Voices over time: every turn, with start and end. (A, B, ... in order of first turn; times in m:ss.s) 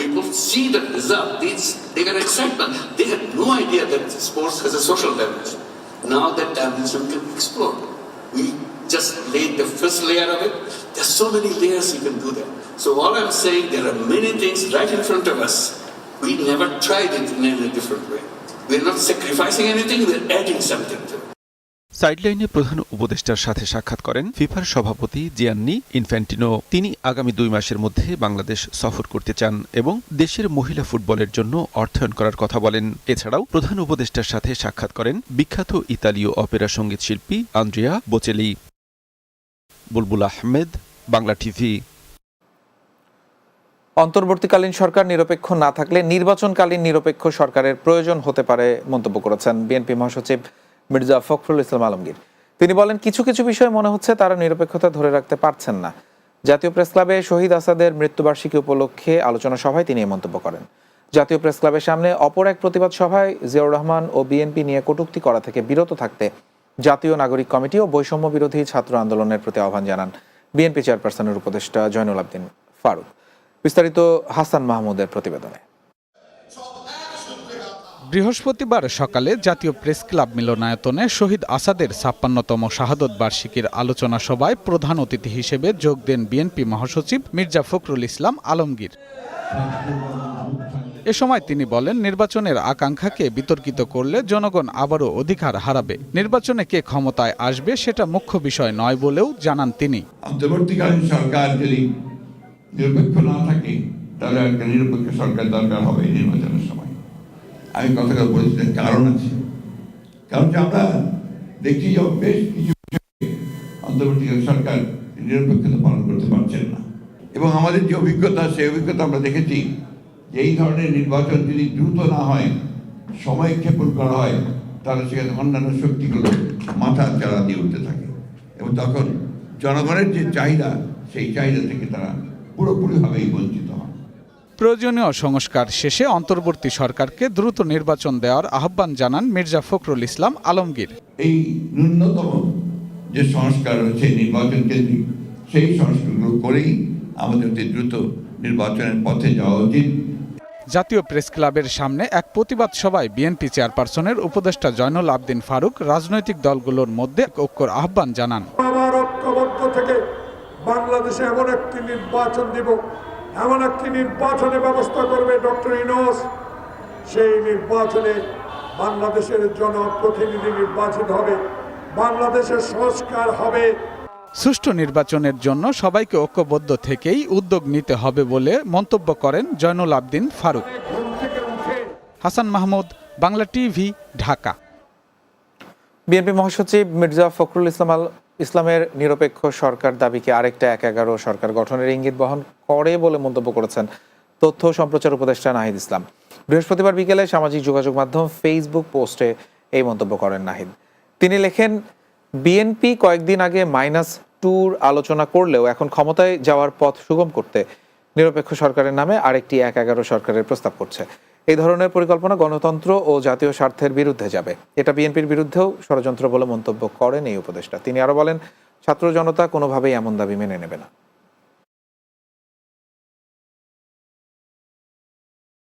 0:00.1-0:05.5 A
0:06.1-0:07.8 A
0:08.4-0:15.7 A
0:16.2-0:18.2 A
0:18.7-0:20.9 A
0:22.0-0:38.5 B
0:40.0-0:41.8 B
0:44.0-0:50.4 C
0:50.9-0:55.9 C
0:56.5-1:06.3 C
1:06.9-1:13.1 C
1:13.6-1:15.6 C
1:18.1-1:28.9 D
1:29.5-1:31.0 E
1:31.1-1:40.0 D
1:40.2-1:41.8 E
1:42.8-1:47.0 E
1:47.8-1:49.4 E
1:50.3-1:51.0 E
1:51.6-1:53.3 E
1:53.8-1:59.7 E
2:00.3-2:02.5 E
2:03.2-2:13.9 E
2:14.6-2:20.9 D
2:21.2-2:22.4 E
2:23.1-2:29.9 E
2:30.7-2:38.5 D
2:39.0-2:39.4 F
2:41.1-2:42.5 F
2:43.6-2:46.2 F
2:49.2-2:49.7 F
2:50.2-2:51.4 F
2:52.2-2:53.6 F
2:54.4-3:00.7 D
3:02.2-3:04.5 D
3:06.1-3:13.9 C
3:14.4-3:21.8 C
3:22.4-3:27.6 C
3:28.2-3:40.9 C